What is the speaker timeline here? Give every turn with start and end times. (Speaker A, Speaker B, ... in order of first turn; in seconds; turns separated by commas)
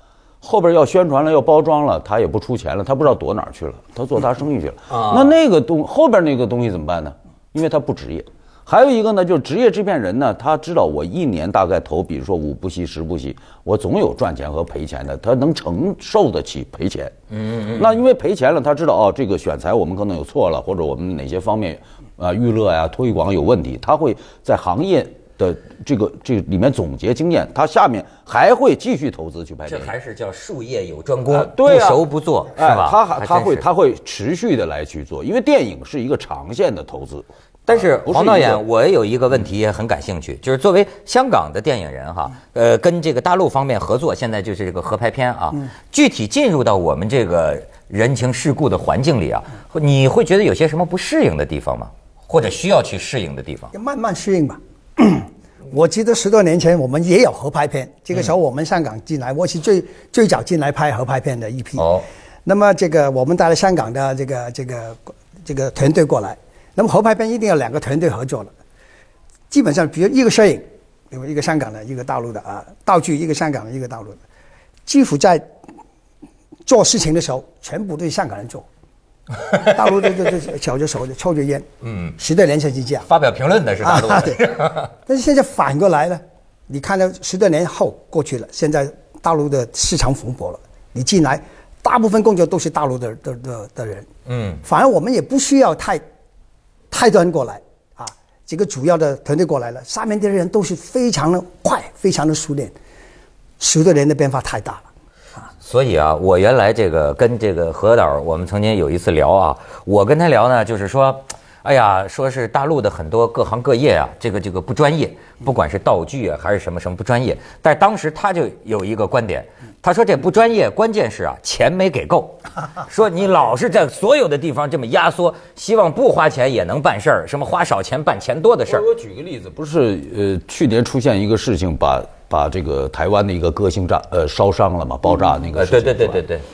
Speaker A: 0.4-17.1, Speaker B: 4.9-5.3, Speaker B: 17.3-17.9, Speaker A: 17.7-29.9, Speaker B: 29.7-33.6, Speaker A: 31.3-38.6, Speaker B: 37.7-53.7, Speaker C: 53.7-61.9, Speaker B: 61.8-62.1, Speaker C: 62.5-68.5, Speaker C: 69.5-74.2, Speaker C: 74.9-75.5, Speaker C: 76.7-78.7, Speaker C: 79.7-81.7, Speaker B: 81.8-82.2, Speaker C: 82.2-83.1, Speaker B: 83.1-84.9, Speaker C: 83.8-84.5, Speaker C: 85.1-94.1, Speaker B: 94.3-94.6, Speaker C: 94.6-96.0, Speaker C: 96.9-102.8, Speaker C: 103.6-104.9, Speaker B: 105.6-128.9, Speaker A: 128.7-136.2, Speaker B: 135.5-136.4